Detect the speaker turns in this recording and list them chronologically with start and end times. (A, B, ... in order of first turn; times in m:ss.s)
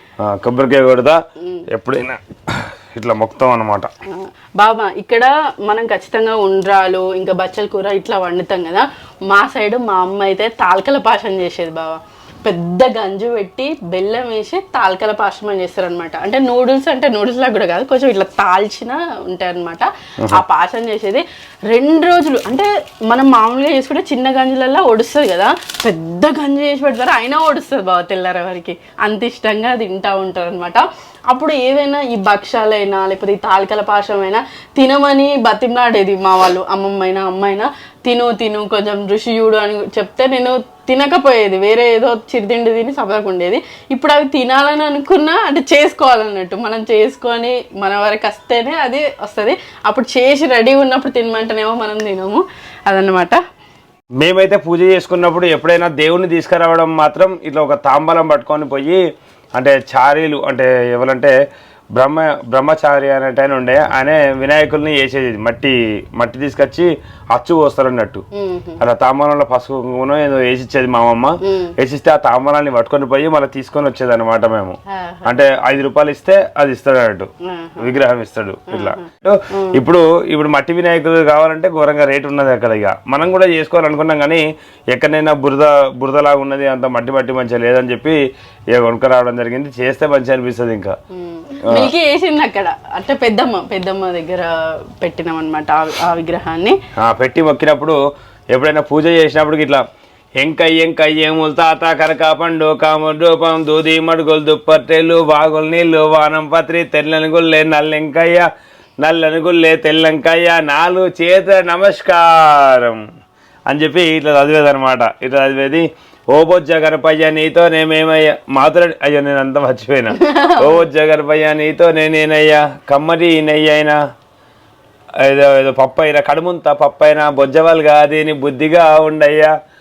0:00.2-0:01.2 A
0:01.4-0:01.7 B
0:01.7-0:03.9 A
0:04.1-0:53.4 B
0:54.2-0:59.0 A
0:59.6-1:01.3 A
1:01.9-1:08.2 A
1:08.3-1:08.8 B
1:08.8-1:28.2 A
1:11.4-1:11.7 B
1:14.9-1:15.3 B
1:17.4-1:18.0 B
1:18.7-1:19.8 B
1:28.7-1:30.9 A
1:31.1-1:36.8 B
1:31.6-1:31.9 A
1:37.0-1:38.0 A
1:38.5-1:39.8 A
1:40.4-1:48.4 A
1:49.0-1:53.0 A
1:53.7-2:04.0 A
2:00.2-2:00.8 B
2:05.2-2:09.5 A